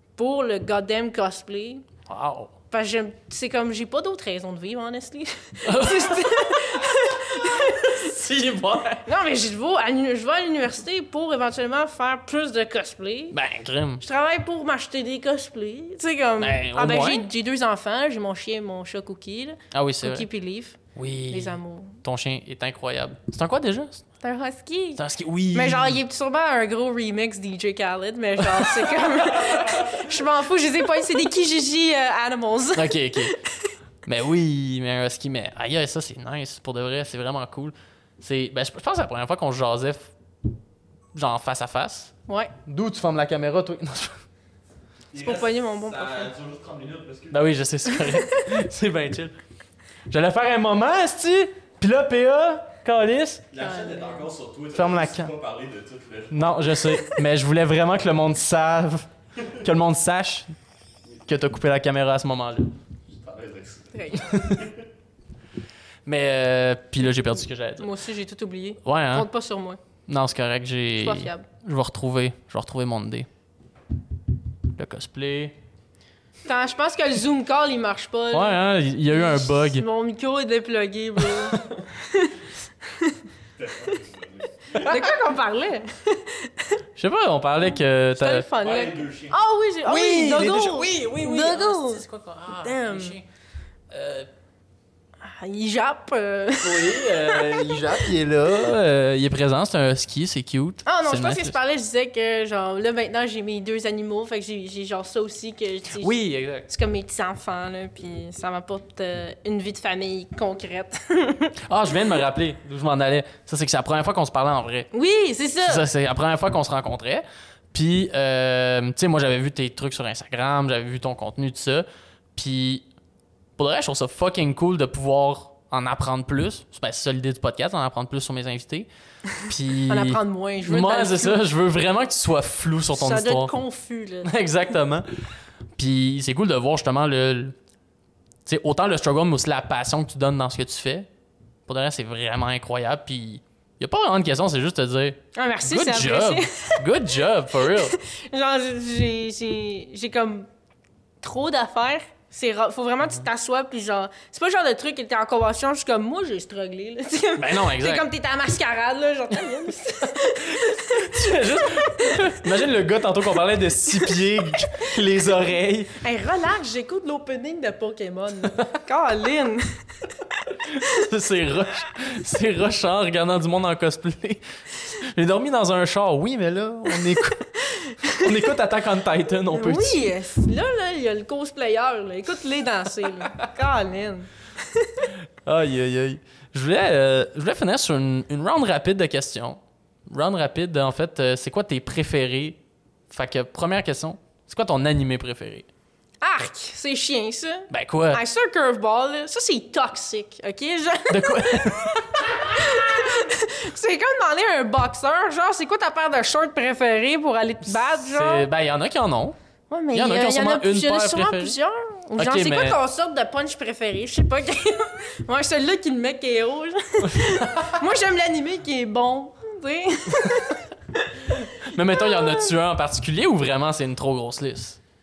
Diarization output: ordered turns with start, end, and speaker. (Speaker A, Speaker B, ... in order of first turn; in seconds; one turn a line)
Speaker A: 0.2-1.9
Speaker B: 2.1-2.5
Speaker A: 2.7-8.2
Speaker B: 5.7-9.0
Speaker A: 9.0-13.4
Speaker B: 13.3-14.0
Speaker A: 14.0-22.0
Speaker B: 16.4-17.3
Speaker B: 19.7-20.3
Speaker B: 20.9-24.1
Speaker A: 24.2-33.7
Speaker B: 25.0-26.0
Speaker B: 28.5-29.7
Speaker B: 32.8-33.3
Speaker B: 34.0-40.1
Speaker B: 41.1-42.1
Speaker A: 42.3-42.5
Speaker B: 42.7-44.2
Speaker C: 45.1-47.5
Speaker A: 45.1-46.3
Speaker B: 47.3-49.4
Speaker A: 47.9-48.5
Speaker B: 50.1-53.5
Speaker C: 53.5-57.0
Speaker A: 53.6-54.3
Speaker B: 54.7-55.3
Speaker B: 56.3-60.5
Speaker B: 61.3-62.7
Speaker C: 63.2-64.7
Speaker A: 63.9-64.3
Speaker B: 64.2-64.7
Speaker B: 66.1-67.9
Speaker A: 67.8-69.8
Speaker B: 68.8-69.3
Speaker B: 70.1-73.3
Speaker A: 71.0-71.5
Speaker B: 74.7-75.5
Speaker A: 76.5-78.6
Speaker B: 78.3-79.8
Speaker A: 79.1-83.3
Speaker B: 81.2-81.6
Speaker C: 83.6-84.9
Speaker A: 84.7-86.8
Speaker B: 87.0-88.9
Speaker A: 88.2-93.2
Speaker C: 88.6-89.4
Speaker B: 89.9-93.2
Speaker B: 93.9-94.3
Speaker A: 95.2-98.0
Speaker B: 96.6-101.5
Speaker A: 100.8-106.1
Speaker B: 106.0-106.7
Speaker A: 106.7-111.6
Speaker B: 111.7-114.9
Speaker A: 114.9-115.9
Speaker B: 115.6-122.9
Speaker B: 123.6-128.9
Speaker B: 129.4-133.5
Speaker A: 129.9-131.4
Speaker A: 132.9-134.3
Speaker B: 134.2-135.1
Speaker B: 135.8-137.6
Speaker B: 138.5-141.1
Speaker B: 141.7-148.0
Speaker A: 145.3-146.8
Speaker A: 147.7-150.5
Speaker A: 151.2-162.4
Speaker B: 157.4-158.1
Speaker B: 160.4-166.0
Speaker A: 166.0-170.0
Speaker B: 170.6-180.0
Speaker A: 177.6-178.3
Speaker A: 179.5-185.0
Speaker B: 185.4-192.6
Speaker B: 193.1-195.7
Speaker A: 196.2-208.5
Speaker B: 197.7-198.2
Speaker B: 201.1-202.0
Speaker B: 207.7-209.4
Speaker A: 209.7-222.5
Speaker B: 209.9-211.6
Speaker B: 212.2-212.8
Speaker B: 217.0-217.8
Speaker B: 221.3-224.8